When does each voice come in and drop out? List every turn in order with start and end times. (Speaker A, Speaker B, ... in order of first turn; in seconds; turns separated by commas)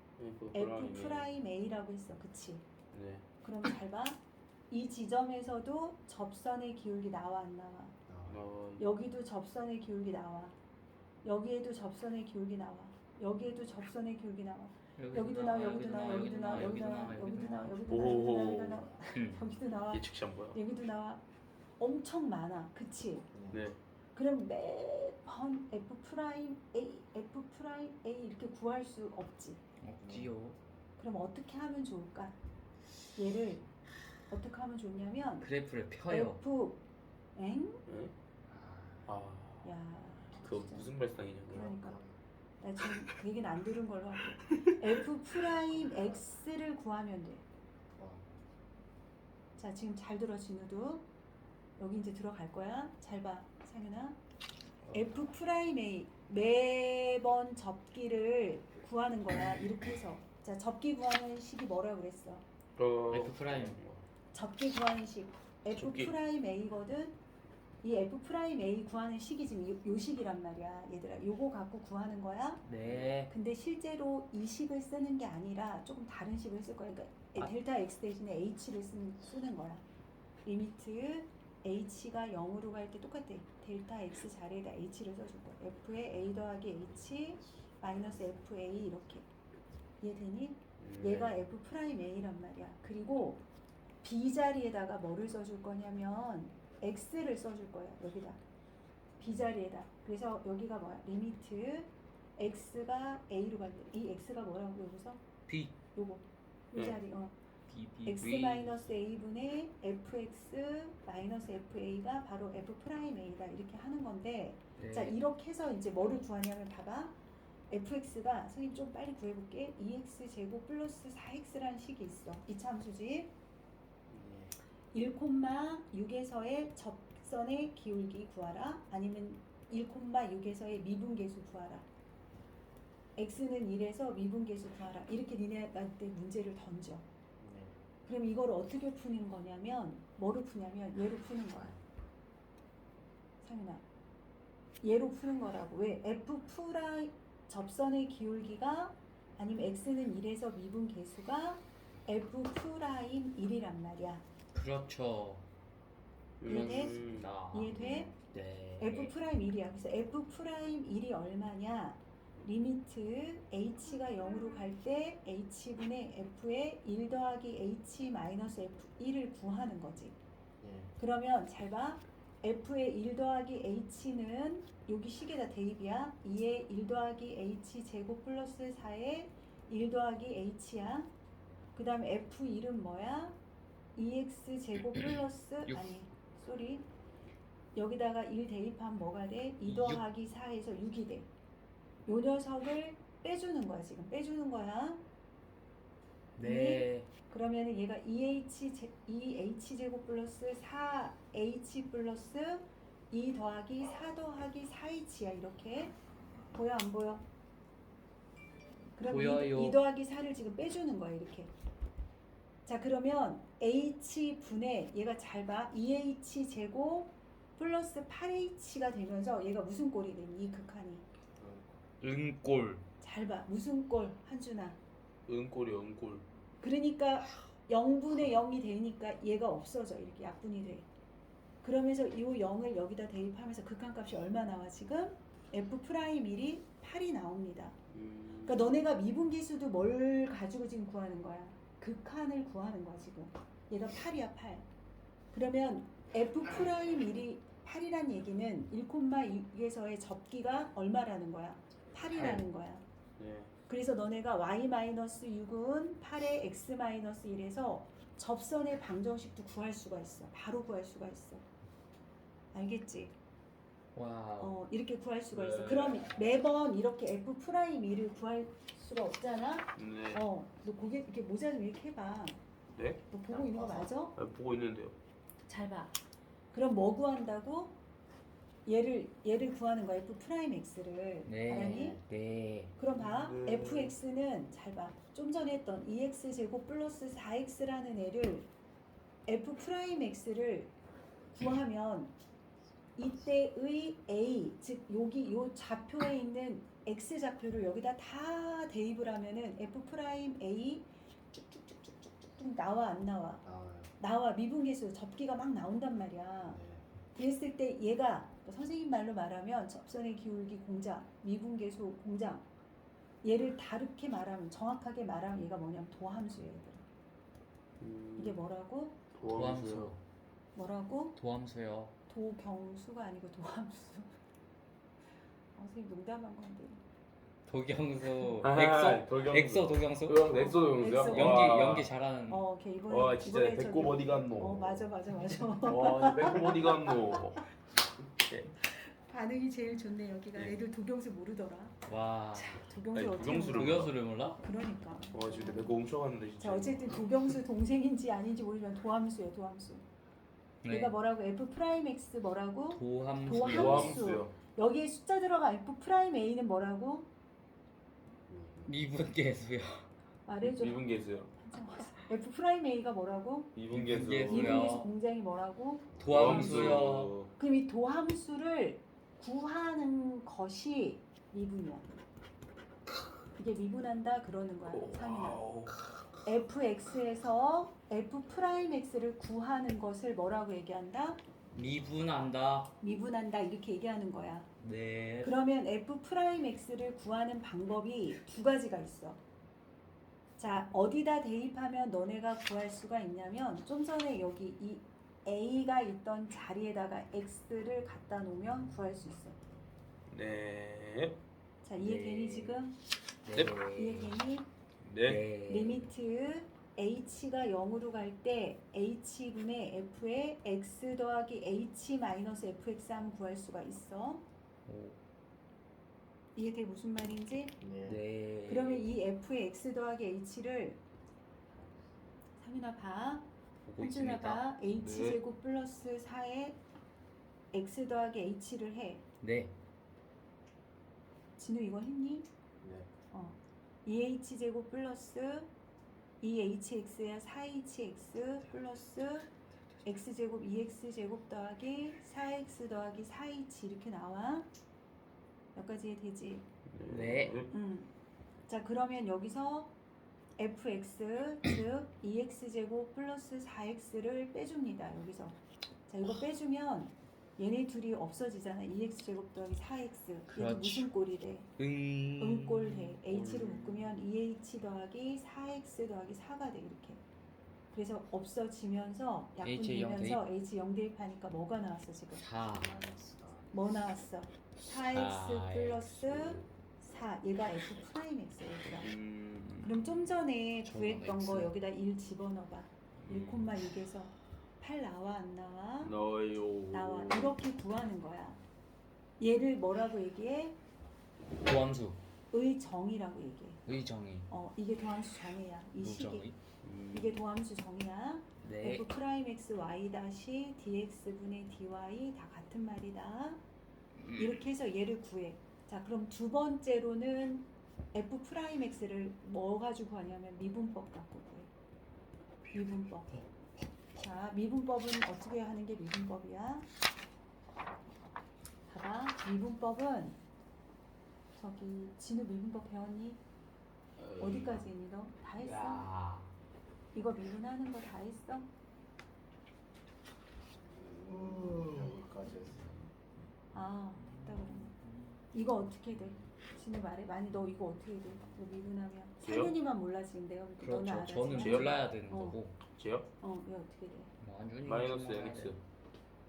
Speaker A: 0.2-1.3, Speaker B: 0.5-2.6, Speaker A: 2.9-3.2, Speaker B: 3.4-8.0, Speaker C: 8.1-8.5, Speaker A: 8.3-8.9, Speaker B: 8.8-10.6, Speaker B: 11.2-21.2, Speaker D: 15.0-18.0, Speaker A: 17.9-18.9, Speaker D: 19.1-19.4, Speaker A: 19.9-20.6, Speaker B: 21.8-23.3, Speaker C: 23.3-23.7, Speaker A: 23.5-23.8, Speaker B: 24.1-29.6, Speaker D: 29.8-30.6, Speaker C: 30.0-30.3, Speaker B: 31.0-32.4, Speaker B: 33.2-33.7, Speaker B: 34.3-35.5, Speaker D: 35.4-36.4, Speaker B: 36.1-36.8, Speaker B: 37.4-37.9, Speaker A: 37.9-38.1, Speaker C: 38.5-39.1, Speaker A: 39.1-39.7, Speaker B: 39.6-40.9, Speaker A: 40.4-41.8, Speaker B: 41.5-42.0, Speaker C: 41.6-42.2, Speaker B: 42.6-47.4, Speaker C: 47.9-48.5, Speaker B: 49.6-51.1, Speaker B: 51.8-54.2, Speaker B: 54.9-62.5, Speaker A: 62.8-64.0, Speaker D: 63.1-63.8, Speaker B: 64.3-67.2, Speaker A: 65.7-66.1, Speaker B: 67.8-72.7, Speaker D: 72.6-73.3, Speaker B: 73.3-79.8, Speaker B: 80.5-89.3, Speaker B: 90.0-93.4, Speaker A: 90.8-91.4, Speaker B: 94.0-98.4, Speaker B: 99.2-105.2, Speaker D: 105.5-105.8, Speaker B: 105.9-107.4, Speaker D: 107.7-108.8, Speaker B: 108.0-117.2, Speaker D: 114.8-115.2, Speaker B: 117.7-123.3, Speaker C: 124.1-124.6, Speaker B: 124.9-131.9, Speaker B: 133.2-137.1, Speaker C: 137.4-137.8, Speaker B: 138.1-141.8, Speaker B: 143.4-143.8, Speaker B: 144.8-154.2, Speaker D: 154.5-155.5, Speaker A: 156.4-157.3, Speaker D: 156.4-159.1, Speaker B: 156.5-158.2, Speaker B: 158.8-170.2, Speaker C: 170.6-170.9, Speaker B: 171.0-181.1, Speaker B: 181.8-183.4, Speaker B: 184.0-186.9, Speaker D: 185.7-185.9, Speaker B: 187.8-191.3, Speaker D: 189.7-190.0, Speaker B: 192.1-195.0, Speaker D: 196.4-197.1, Speaker B: 196.4-205.9, Speaker B: 206.5-207.2, Speaker B: 209.0-211.5, Speaker D: 209.1-209.8, Speaker B: 212.7-221.1, Speaker C: 221.4-221.8, Speaker D: 222.0-222.8, Speaker B: 223.0-224.8, Speaker A: 225.3-226.2, Speaker B: 226.6-230.9, Speaker B: 231.6-237.8, Speaker A: 237.9-238.7, Speaker B: 238.4-244.7, Speaker B: 245.3-252.8, Speaker D: 252.1-252.4, Speaker A: 253.2-253.5, Speaker B: 253.7-261.4, Speaker B: 262.5-263.1, Speaker D: 263.9-264.6, Speaker B: 264.4-272.4, Speaker A: 265.3-266.1, Speaker A: 269.8-270.2, Speaker A: 272.8-273.0, Speaker B: 273.1-274.2, Speaker C: 273.3-274.0, Speaker A: 274.1-275.0, Speaker B: 275.5-276.0, Speaker B: 276.5-277.8, Speaker B: 278.7-282.0, Speaker D: 281.2-282.7, Speaker C: 281.5-282.0, Speaker B: 282.8-288.5, Speaker A: 283.0-283.9, Speaker B: 289.3-290.7, Speaker B: 291.3-292.2, Speaker B: 293.0-303.4, Speaker C: 303.4-303.9, Speaker B: 304.0-306.6, Speaker C: 306.4-306.9, Speaker B: 307.1-312.5, Speaker B: 313.2-316.9, Speaker A: 317.8-318.4, Speaker B: 318.2-319.0, Speaker A: 319.1-319.9, Speaker D: 319.3-320.0, Speaker B: 320.6-321.2, Speaker D: 321.2-322.0, Speaker B: 322.1-324.1, Speaker B: 325.6-326.8, Speaker D: 327.5-332.4, Speaker A: 328.4-331.9, Speaker B: 330.3-331.7, Speaker B: 332.3-336.9, Speaker A: 332.9-334.9, Speaker A: 335.6-337.5, Speaker A: 338.2-338.5, Speaker B: 338.6-345.8, Speaker D: 341.9-342.7, Speaker A: 342.9-344.0, Speaker D: 343.4-344.4, Speaker A: 345.1-347.4, Speaker B: 346.4-349.8, Speaker D: 350.6-350.9, Speaker B: 350.7-357.1, Speaker D: 352.7-354.1, Speaker A: 353.3-354.3, Speaker C: 358.3-358.8, Speaker D: 358.7-359.9, Speaker B: 360.3-360.9, Speaker A: 360.4-361.3, Speaker B: 361.4-363.5, Speaker A: 363.6-364.8, Speaker D: 363.7-364.9, Speaker B: 364.3-366.8, Speaker C: 365.9-366.3, Speaker D: 366.0-367.1, Speaker A: 366.1-367.3, Speaker B: 367.4-371.9, Speaker B: 373.4-375.4, Speaker A: 374.7-375.8, Speaker B: 376.2-381.2, Speaker D: 381.5-382.8, Speaker B: 382.8-384.5, Speaker D: 384.6-385.3, Speaker B: 385.2-389.2, Speaker B: 390.4-399.4, Speaker A: 400.1-401.2, Speaker B: 401.6-402.8, Speaker D: 401.8-402.6, Speaker D: 403.2-404.2, Speaker A: 403.3-403.6, Speaker B: 403.7-404.5, Speaker A: 404.8-405.2, Speaker D: 405.1-405.9, Speaker B: 405.5-414.2, Speaker D: 414.7-415.0, Speaker B: 416.4-417.6, Speaker C: 417.6-418.0, Speaker D: 417.9-418.9, Speaker B: 418.5-420.8, Speaker C: 421.5-422.1, Speaker B: 422.4-423.3, Speaker A: 423.7-425.2, Speaker D: 423.7-424.1, Speaker B: 423.8-426.6, Speaker B: 427.5-429.1, Speaker D: 429.2-429.6, Speaker B: 431.4-432.3, Speaker C: 432.6-432.9, Speaker B: 433.1-435.5, Speaker B: 436.2-439.3, Speaker B: 439.8-444.5, Speaker B: 445.6-446.5, Speaker A: 446.7-447.5, Speaker D: 446.9-447.4, Speaker B: 447.5-447.9, Speaker B: 448.5-449.7, Speaker B: 450.4-461.5, Speaker D: 460.3-460.9, Speaker D: 461.6-463.2, Speaker B: 462.2-467.1, Speaker A: 463.1-463.9, Speaker B: 467.7-472.2, Speaker D: 469.4-470.2, Speaker D: 472.2-472.8, Speaker C: 472.5-473.8, Speaker B: 473.5-478.9, Speaker D: 474.7-476.4, Speaker A: 478.6-479.7, Speaker B: 479.6-485.9, Speaker D: 480.6-481.5, Speaker A: 483.0-483.5, Speaker A: 485.8-487.4, Speaker B: 486.7-488.4, Speaker B: 489.2-490.6, Speaker D: 491.4-492.0, Speaker B: 492.3-493.6, Speaker D: 493.7-494.3, Speaker B: 494.3-496.3, Speaker D: 495.8-496.4, Speaker A: 496.6-497.2, Speaker B: 496.9-503.4, Speaker D: 498.4-498.9, Speaker D: 504.0-504.4, Speaker B: 504.2-511.5, Speaker B: 512.5-513.2, Speaker B: 514.0-516.7, Speaker B: 518.7-520.2, Speaker B: 521.4-523.2, Speaker A: 524.0-524.6, Speaker B: 524.2-525.9, Speaker D: 525.4-526.3, Speaker B: 526.9-528.5, Speaker C: 530.6-532.8, Speaker A: 531.3-531.9, Speaker B: 533.5-534.8, Speaker D: 534.0-535.1, Speaker B: 535.3-542.4, Speaker A: 539.2-539.5, Speaker D: 540.6-542.6, Speaker A: 541.3-541.8, Speaker A: 542.7-543.1, Speaker B: 543.2-544.1, Speaker D: 544.2-545.5, Speaker A: 544.6-545.6